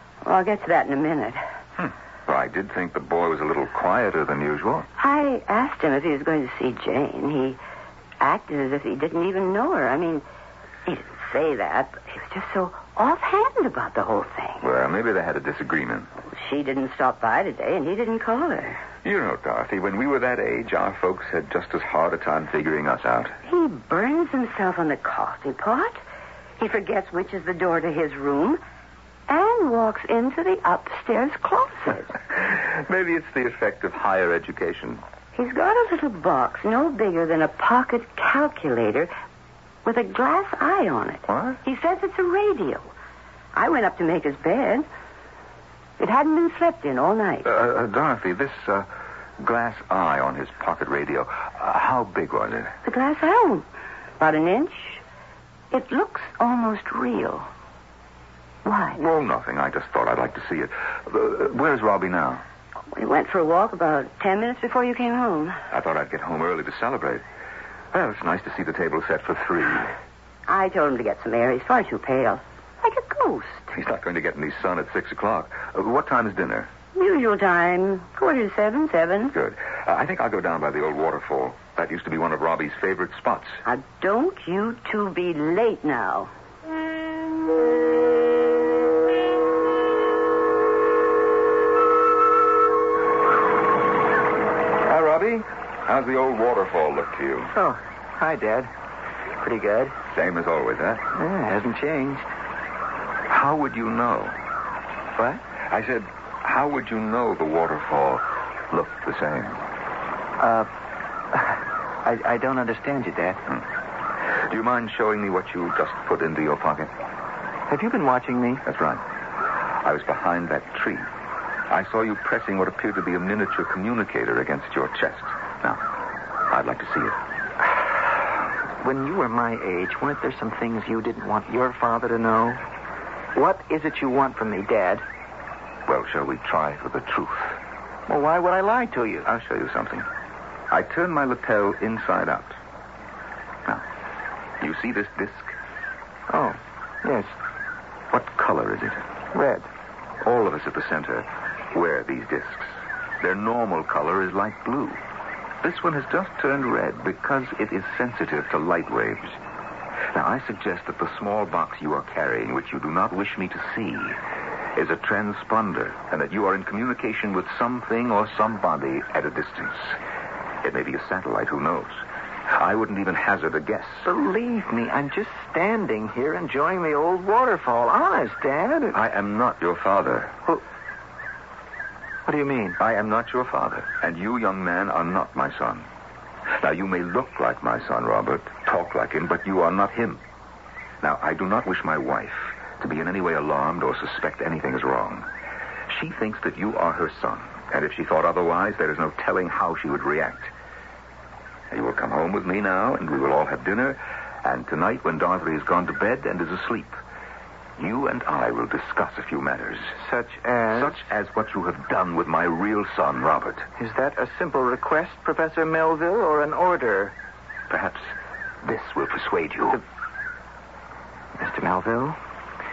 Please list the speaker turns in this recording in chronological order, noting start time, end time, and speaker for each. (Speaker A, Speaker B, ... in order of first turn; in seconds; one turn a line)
Speaker A: 0.2-1.4
Speaker B: 1.8-4.9
Speaker A: 5.0-7.6
Speaker A: 8.2-10.2
Speaker A: 10.9-14.6
Speaker B: 14.6-16.1
Speaker A: 16.4-18.8
Speaker B: 19.0-23.4
Speaker A: 23.4-26.0
Speaker A: 26.6-28.6
Speaker A: 29.3-32.1
Speaker B: 32.4-35.0
Speaker A: 35.4-39.1
Speaker A: 39.9-42.8
Speaker B: 41.3-41.6
Speaker A: 43.5-44.9
Speaker A: 46.0-47.5
Speaker B: 47.4-48.9
Speaker B: 49.4-52.8
Speaker A: 52.8-53.6
Speaker A: 54.2-55.0
Speaker A: 55.7-57.5
Speaker A: 58.6-59.0
Speaker B: 59.0-62.4
Speaker A: 62.9-65.6
Speaker B: 65.7-67.2
Speaker B: 67.9-69.9
Speaker A: 70.5-73.7
Speaker B: 73.7-76.7
Speaker A: 77.0-79.3
Speaker B: 79.3-83.6
Speaker A: 83.7-86.3
Speaker B: 94.8-97.5
Speaker C: 97.5-98.7
Speaker C: 99.4-100.0
Speaker B: 100.1-101.1
Speaker C: 101.2-102.3
Speaker B: 103.3-104.4
Speaker C: 105.2-105.4
Speaker B: 105.6-109.6
Speaker C: 110.4-110.7
Speaker C: 111.3-113.4
Speaker B: 114.3-116.9
Speaker C: 117.7-118.7
Speaker B: 118.7-119.0
Speaker B: 119.8-121.1
Speaker B: 121.7-125.8
Speaker B: 126.5-127.2
Speaker C: 128.8-132.6
Speaker C: 133.3-135.1
Speaker B: 135.9-137.6
Speaker C: 138.1-139.3
Speaker B: 139.2-140.1
Speaker B: 140.7-142.6
Speaker B: 144.6-145.6
Speaker C: 146.3-147.3
Speaker B: 148.1-149.0
Speaker C: 149.3-149.7
Speaker B: 150.2-155.0
Speaker B: 155.6-159.4
Speaker B: 160.1-164.2
Speaker B: 164.7-170.0
Speaker B: 170.6-174.1
Speaker C: 174.1-179.0
Speaker B: 178.9-180.4
Speaker C: 182.3-182.8
Speaker B: 182.8-185.9
Speaker B: 186.6-190.2
Speaker B: 191.0-195.3
Speaker B: 195.9-200.5
Speaker B: 201.7-207.0
Speaker B: 207.8-209.9
Speaker C: 210.0-211.0
Speaker B: 210.7-213.7
Speaker C: 213.8-217.1
Speaker B: 217.7-218.1
Speaker B: 218.6-219.8
Speaker C: 221.4-222.2